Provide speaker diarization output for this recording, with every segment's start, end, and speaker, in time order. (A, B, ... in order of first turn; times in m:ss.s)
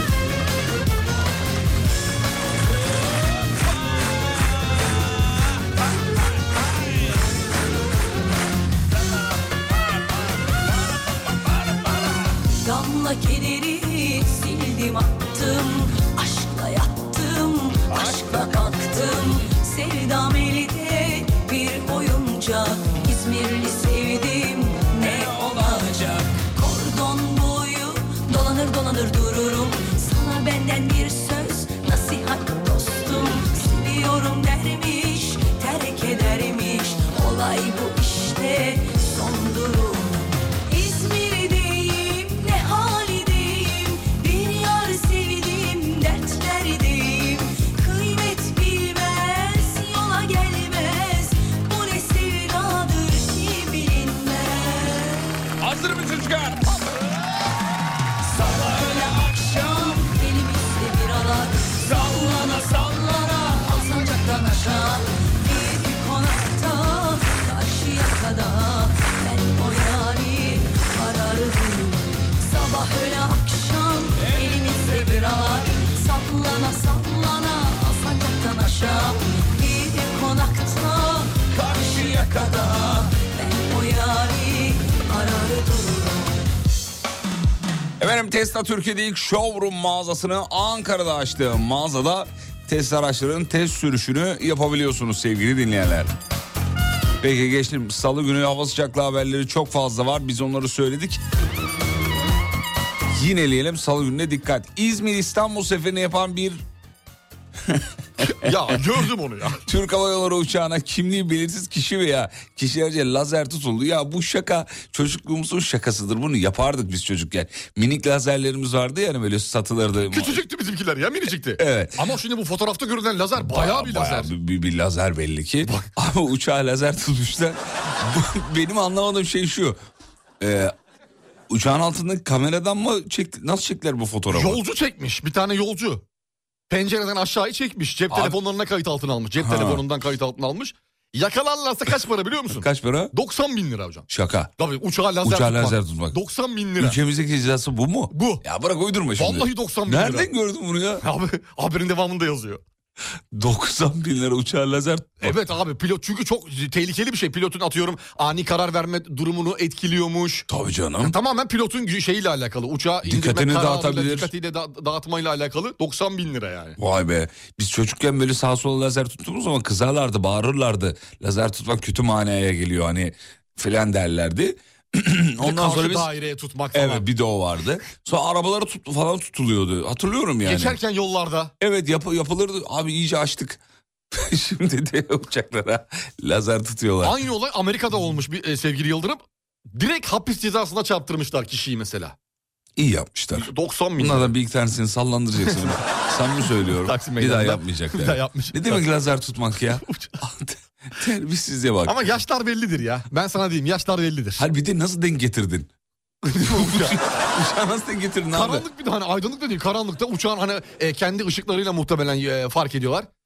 0:12.6-0:55.3 A
0:17.9-0:18.6 B
0:25.0-0:26.2 B
0:55.6-0:56.7 B
0:58.3-1:26.4 A
1:01.8-1:02.9 B
1:14.3-1:14.6 B
1:21.6-1:22.7 B
1:28.0-1:36.1 B
1:37.2-1:41.2 B
1:43.1-1:46.6 B
1:47.7-1:48.3 B
1:48.2-1:49.6 C
1:49.7-2:00.4 B
2:00.1-2:04.3 C
2:01.6-2:02.1 B
2:03.4-2:09.8 B
2:10.4-2:10.7 B
2:11.5-2:14.6 B
2:14.3-2:16.0 C
2:16.7-2:24.1 C
2:18.1-2:18.4 B
2:19.4-2:19.8 B
2:22.5-2:23.1 B
2:24.1-2:24.5 B
2:24.6-2:27.0 C
2:25.2-2:26.2 B
2:26.8-2:31.0 B
2:28.1-2:28.4 C
2:29.2-2:30.3 C
2:31.0-2:32.6 C
2:33.3-2:35.4 B
2:35.2-2:40.5 C
2:40.5-2:41.2 B
2:41.0-2:46.8 C
2:43.0-2:44.3 B
2:46.8-2:56.1 B
2:55.4-2:57.0 C
2:56.7-3:00.8 B
3:00.4-3:01.5 C
3:01.6-3:07.2 B
3:07.0-3:09.2 C
3:09.7-3:12.2 C
3:12.8-3:22.1 B
3:13.4-3:14.3 C
3:16.8-3:18.8 C
3:21.9-3:24.4 C
3:24.4-3:25.7 B
3:26.2-3:27.0 C
3:26.4-3:28.7 B
3:28.3-3:33.1 C